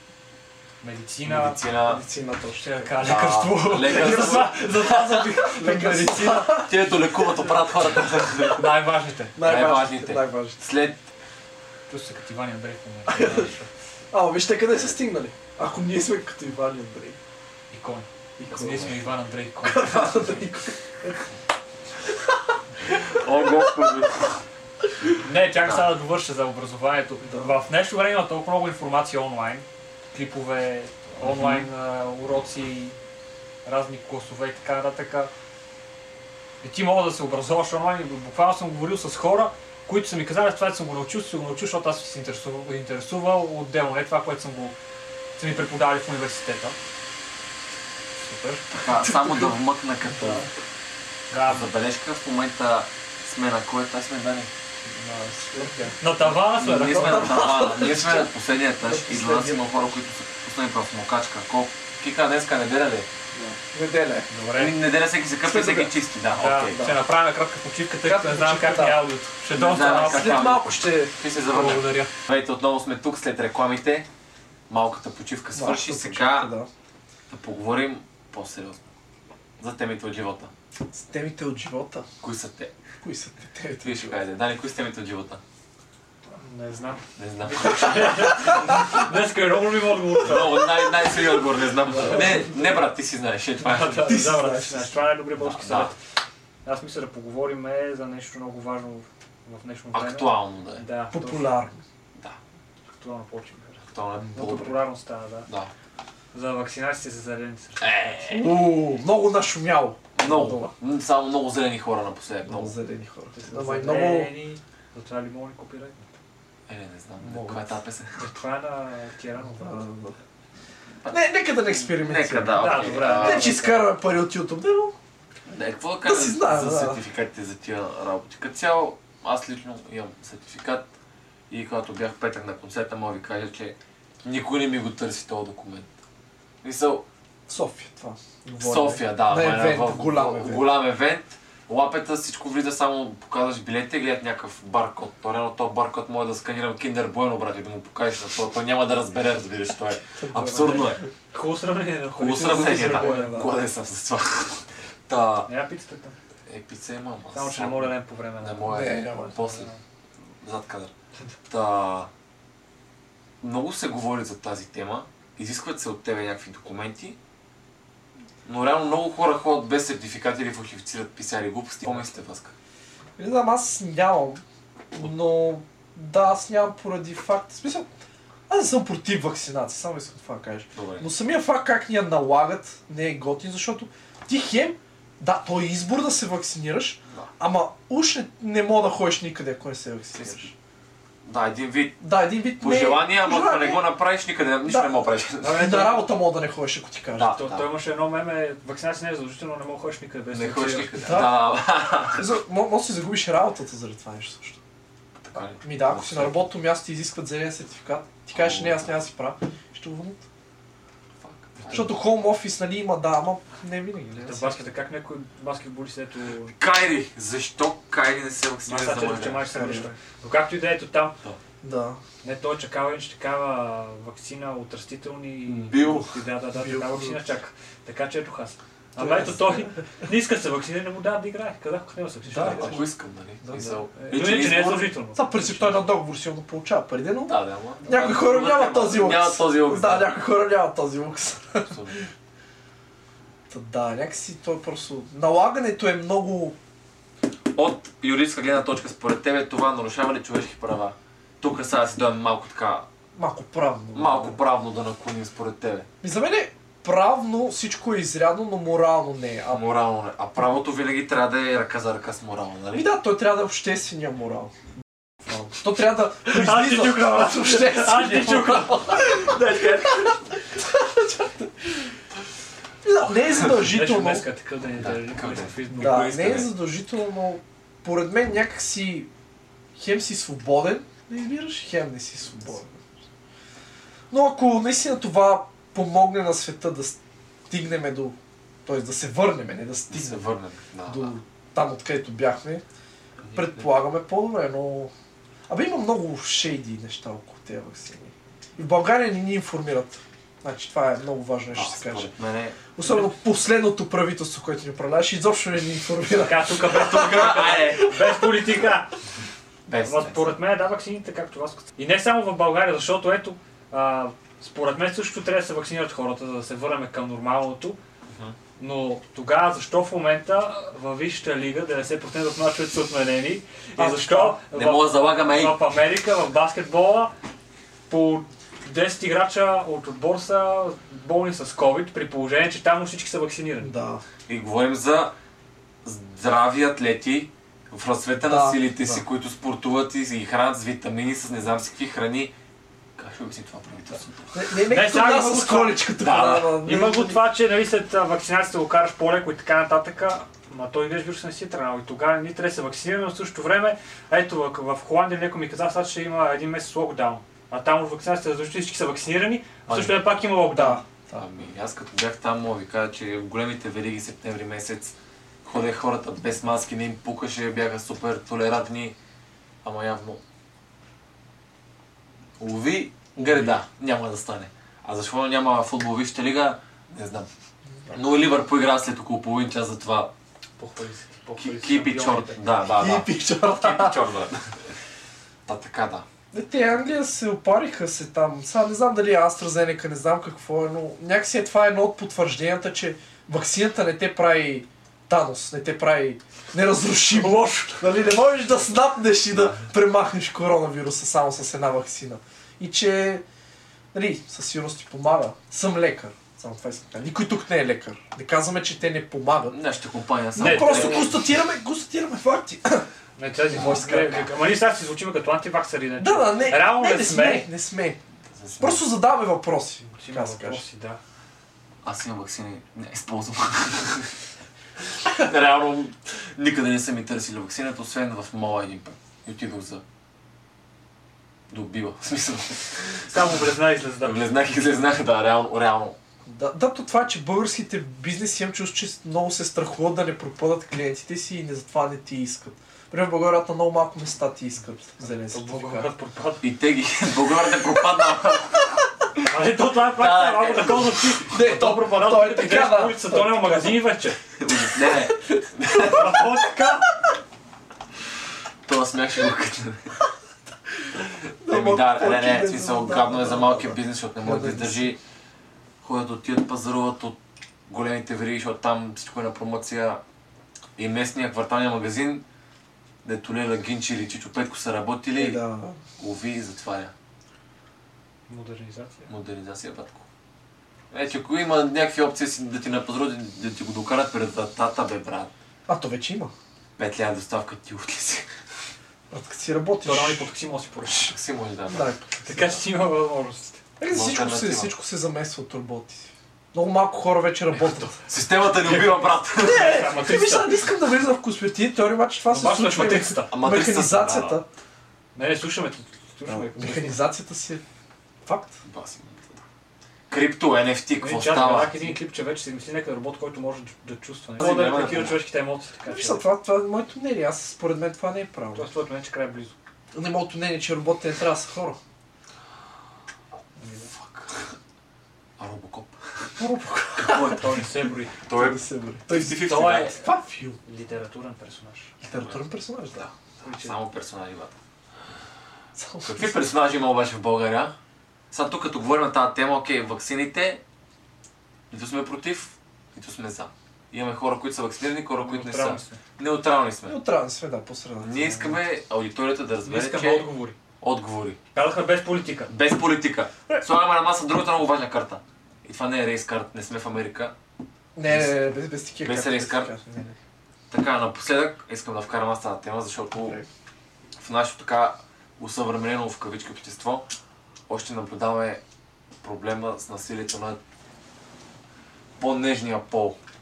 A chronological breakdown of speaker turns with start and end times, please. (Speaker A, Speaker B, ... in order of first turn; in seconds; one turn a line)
Speaker A: 0.8-1.6
Speaker B: 1.2-2.0
Speaker C: 1.8-2.9
Speaker A: 2.6-6.7
Speaker B: 3.0-4.7
Speaker C: 3.8-6.7
Speaker B: 6.6-8.8
Speaker A: 8.4-9.3
Speaker C: 9.3-10.6
Speaker B: 9.4-11.1
Speaker A: 11.9-13.7
Speaker C: 13.1-13.5
Speaker C: 14.1-17.2
Speaker A: 17.7-20.4
Speaker C: 18.4-19.0
Speaker B: 18.5-18.9
Speaker C: 19.6-21.2
Speaker B: 22.9-24.4
Speaker C: 23.0-23.7
Speaker A: 25.1-33.0
Speaker B: 25.6-25.9
Speaker C: 27.2-27.5
Speaker B: 31.2-31.7
Speaker A: 33.6-35.3
Speaker A: 36.6-44.7
Speaker A: 45.4-46.8
Speaker A: 48.2-48.7
Speaker C: 48.8-49.5
Speaker B: 48.8-50.5
Speaker A: 51.3-51.7
Speaker B: 51.4-54.5
Speaker A: 54.9-57.5
Speaker C: 55.0-56.0
Speaker B: 56.5-63.1
Speaker C: 56.6-58.3
Speaker C: 58.8-59.9
Speaker C: 63.7-64.3
Speaker A: 64.3-64.8
Speaker B: 64.5-66.8
Speaker C: 65.4-65.9
Speaker A: 66.4-70.5
Speaker C: 68.0-69.0
Speaker C: 69.6-71.2
Speaker B: 69.6-74.1
Speaker A: 71.3-72.1
Speaker B: 74.7-76.5
Speaker C: 75.5-76.7
Speaker B: 77.3-78.9
Speaker B: 79.6-80.5
Speaker C: 80.9-82.1
Speaker B: 82.2-82.7
Speaker C: 83.0-84.2
Speaker B: 83.8-85.4
Speaker A: 86.3-90.9
Speaker B: 87.2-88.7
Speaker B: 90.2-94.2
Speaker C: 91.9-92.6
Speaker A: 93.6-95.9
Speaker C: 94.0-95.0
Speaker B: 95.4-95.9
Speaker A: 96.6-101.6
Speaker B: 99.9-100.8
Speaker C: 101.1-101.8
Speaker A: 102.9-105.5
Speaker B: 103.9-104.7
Speaker C: 104.3-104.7
Speaker A: 106.3-108.4
Speaker B: 107.8-108.5
Speaker C: 108.3-110.7
Speaker B: 110.2-112.7
Speaker C: 112.4-114.3
Speaker A: 113.3-116.1
Speaker B: 116.7-118.2
Speaker C: 117.2-117.7
Speaker A: 118.2-119.8
Speaker C: 119.6-120.2
Speaker B: 121.0-123.6
Speaker C: 121.1-125.0
Speaker A: 122.5-123.9
Speaker B: 125.5-130.9
Speaker C: 126.0-127.0
Speaker B: 131.5-135.9
Speaker B: 136.6-137.0
Speaker C: 137.5-140.7
Speaker B: 138.6-151.0
Speaker C: 150.2-151.1
Speaker A: 151.3-153.5
Speaker B: 152.2-155.5
Speaker C: 152.3-153.5
Speaker A: 155.5-156.2
Speaker B: 156.5-159.7
Speaker A: 157.3-159.8
Speaker C: 158.7-159.4
Speaker B: 160.4-160.9
Speaker B: 161.5-162.1
Speaker B: 163.4-167.2
Speaker B: 168.4-172.5
Speaker C: 173.2-174.4
Speaker C: 174.9-177.9
Speaker C: 178.5-190.5
Speaker B: 180.7-181.1
Speaker B: 190.1-190.4
Speaker B: 191.2-192.0
Speaker C: 192.0-193.8
Speaker B: 192.6-195.8
Speaker C: 194.7-197.3
Speaker A: 195.4-196.0
Speaker B: 197.1-197.7
Speaker A: 197.3-201.2
Speaker B: 200.3-202.2
Speaker C: 201.0-201.4
Speaker C: 202.1-204.6
Speaker B: 205.2-206.5
Speaker C: 205.6-210.2
Speaker B: 208.3-208.9
Speaker B: 211.2-211.9
Speaker C: 211.7-214.7
Speaker A: 214.2-216.5
Speaker B: 216.6-219.4
Speaker A: 218.7-221.2
Speaker C: 219.5-219.9
Speaker C: 221.6-222.0
Speaker A: 222.2-232.8
Speaker B: 225.4-226.2
Speaker C: 226.5-227.2
Speaker C: 229.0-229.7
Speaker C: 232.3-232.8
Speaker B: 232.4-235.9
Speaker C: 233.4-233.8
Speaker A: 234.0-235.2
Speaker C: 235.1-242.1
Speaker B: 237.3-240.1
Speaker B: 241.7-242.0
Speaker C: 243.5-246.6
Speaker B: 247.5-252.9
Speaker C: 253.1-254.4
Speaker B: 253.9-255.9
Speaker C: 256.0-259.6
Speaker B: 259.5-262.9
Speaker C: 262.7-264.5
Speaker C: 265.3-271.9
Speaker A: 266.2-269.1
Speaker B: 269.2-270.1
Speaker C: 272.8-274.2
Speaker A: 273.5-276.2
Speaker B: 274.8-276.5
Speaker C: 275.7-279.1
Speaker C: 279.8-282.8
Speaker C: 284.1-287.0
Speaker C: 287.5-290.2
Speaker B: 289.9-291.1
Speaker C: 290.9-292.6
Speaker B: 293.2-293.7
Speaker C: 293.3-294.9
Speaker C: 295.5-302.1
Speaker B: 301.5-302.6
Speaker C: 302.7-308.5
Speaker A: 302.8-303.1
Speaker A: 306.1-308.9
Speaker B: 306.7-307.9
Speaker B: 309.7-310.3
Speaker A: 309.8-317.8
Speaker B: 318.1-318.4
Speaker A: 318.6-327.1
Speaker C: 323.8-324.3
Speaker B: 323.8-325.6
Speaker A: 327.9-333.7
Speaker C: 333.6-334.0
Speaker B: 334.3-335.1
Speaker B: 335.8-342.3
Speaker C: 338.2-339.0
Speaker B: 343.0-344.5
Speaker C: 344.3-347.2
Speaker A: 344.7-345.9
Speaker B: 346.0-346.6
Speaker A: 346.5-360.8
Speaker B: 359.7-360.0
Speaker C: 360.5-361.2
Speaker B: 361.1-368.9
Speaker B: 369.6-370.2
Speaker B: 372.4-377.3
Speaker C: 373.2-373.6
Speaker B: 377.9-380.1
Speaker A: 380.6-382.4
Speaker B: 381.4-384.6
Speaker C: 382.8-384.0
Speaker B: 385.4-386.1
Speaker C: 386.3-403.2
Speaker A: 397.1-397.9
Speaker B: 399.4-399.6
Speaker C: 403.9-409.6
Speaker B: 409.5-411.2
Speaker A: 410.4-411.1
Speaker C: 410.4-412.9
Speaker A: 413.1-417.5
Speaker B: 413.5-414.3
Speaker C: 413.6-414.2
Speaker C: 416.0-418.0
Speaker B: 418.3-418.8
Speaker C: 418.6-420.6
Speaker A: 419.9-421.0
Speaker B: 421.8-424.1
Speaker B: 425.0-429.8
Speaker B: 431.5-433.3
Speaker A: 433.1-434.3
Speaker B: 434.0-436.0
Speaker C: 436.2-445.9
Speaker A: 445.1-446.4
Speaker B: 446.4-448.7
Speaker A: 449.2-454.2
Speaker B: 449.9-451.2
Speaker C: 451.3-453.6
Speaker B: 454.4-456.2
Speaker A: 455.7-456.9
Speaker B: 458.6-459.9
Speaker C: 461.4-464.9
Speaker B: 461.5-465.0
Speaker B: 465.8-467.2
Speaker B: 467.7-470.0
Speaker B: 470.8-472.2
Speaker B: 473.0-475.4
Speaker C: 475.1-475.8
Speaker B: 476.0-476.9
Speaker A: 478.3-479.1
Speaker B: 479.1-480.0
Speaker B: 480.9-485.3
Speaker C: 485.7-486.3
Speaker B: 486.8-488.3
Speaker C: 489.1-490.3
Speaker A: 489.8-491.1
Speaker B: 490.9-492.6
Speaker C: 491.7-492.2
Speaker A: 492.2-493.6
Speaker C: 493.8-498.0
Speaker B: 493.9-494.7
Speaker B: 498.0-499.9
Speaker A: 498.7-500.7
Speaker C: 499.4-504.4
Speaker A: 502.3-503.3
Speaker B: 503.2-504.4
Speaker A: 505.1-507.0
Speaker C: 506.3-507.6
Speaker C: 508.2-508.6
Speaker B: 508.6-509.4
Speaker B: 510.1-512.0
Speaker A: 511.0-516.2
Speaker B: 514.4-515.2
Speaker C: 515.9-518.7
Speaker A: 518.5-519.5
Speaker C: 519.9-521.8
Speaker A: 523.6-523.9
Speaker B: 523.9-524.5
Speaker B: 525.4-526.2
Speaker C: 526.4-527.4
Speaker B: 527.0-527.5
Speaker A: 527.0-528.1
Speaker B: 528.2-530.0
Speaker C: 528.3-530.6
Speaker A: 529.2-530.0
Speaker A: 530.6-531.9
Speaker C: 532.0-533.0
Speaker B: 533.0-534.5
Speaker A: 533.4-533.8
Speaker C: 535.8-536.4
Speaker B: 536.0-537.8
Speaker B: 538.3-540.6
Speaker B: 541.7-547.0
Speaker A: 545.2-546.0
Speaker C: 546.9-548.6
Speaker B: 548.0-550.3
Speaker A: 549.6-550.5
Speaker B: 550.8-551.4
Speaker A: 551.5-552.5
Speaker B: 552.5-557.3
Speaker C: 558.0-560.2
Speaker B: 558.0-558.4
Speaker B: 559.0-559.7
Speaker B: 560.7-563.4
Speaker C: 563.1-563.5
Speaker B: 564.2-567.0
Speaker B: 567.7-568.6
Speaker B: 569.2-570.6
Speaker B: 572.2-573.2